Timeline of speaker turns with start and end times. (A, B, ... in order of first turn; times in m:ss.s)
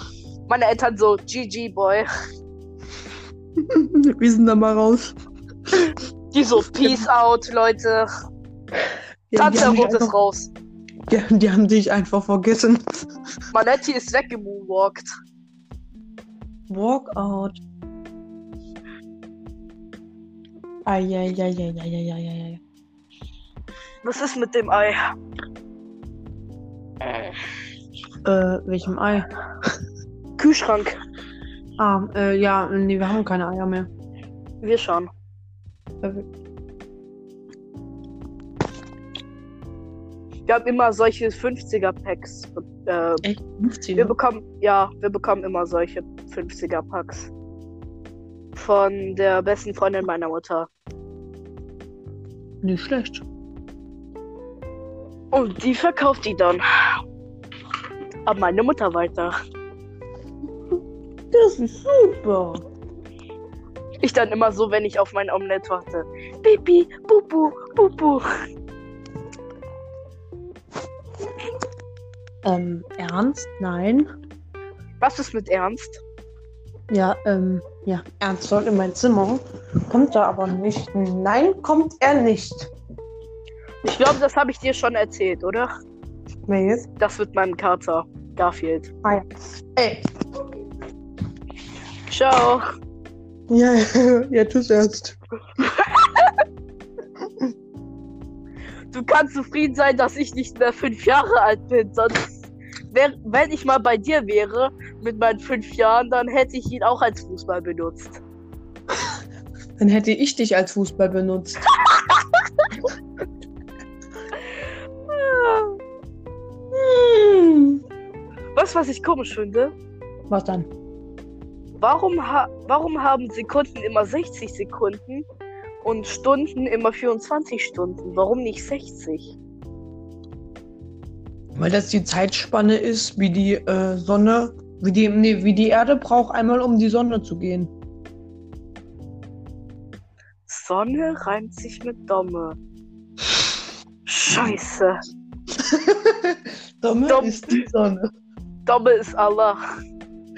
0:00.5-0:02.1 A
0:03.6-0:05.2 B
0:06.3-0:08.1 A
0:09.3-0:10.2 B
0:09.4-0:10.5 A
0:11.1-0:12.8 B
0:13.5-0:15.1 A
0:16.7-0:17.6 B
0:20.9-0:22.6 B
0:24.0-0:25.0 A
0:27.0-0:27.3 A
0:28.2-0:29.3 B
0:30.4-0:30.9 A
0:31.8-0:33.9 B
0:34.6-0:35.1 A
0:36.0-0:36.2 B
0:40.5-0:43.2 A
0:43.2-0:44.1 B
0:44.0-0:47.3 A
0:48.6-0:50.7 A
0:52.6-0:53.2 B
0:55.3-0:56.6 A
0:58.2-0:59.4 A
1:01.3-1:02.6 B
1:04.0-1:08.2 A
1:12.4-1:14.1 B
1:15.0-1:16.0 A
1:16.9-1:22.7 B
1:23.9-1:25.7 A
1:26.5-1:26.9 B
1:27.0-1:28.9 A
1:29.0-1:30.1 B
1:32.1-1:32.6 A
1:33.5-1:35.2 B
1:35.6-1:36.3 A
1:38.9-1:42.3 A
1:42.9-1:48.2 A
1:49.8-1:51.6 B
1:54.5-1:55.8 A
1:56.7-1:57.8 B
1:58.6-1:59.7 A
2:00.3-2:00.7 B
2:01.8-2:05.2 A
2:05.8-2:09.3 A
2:11.5-2:17.7 B
2:20.5-2:22.6 A
2:24.0-2:25.0 A
2:25.6-2:28.1 B
2:27.1-2:27.6 A
2:28.7-2:29.6 A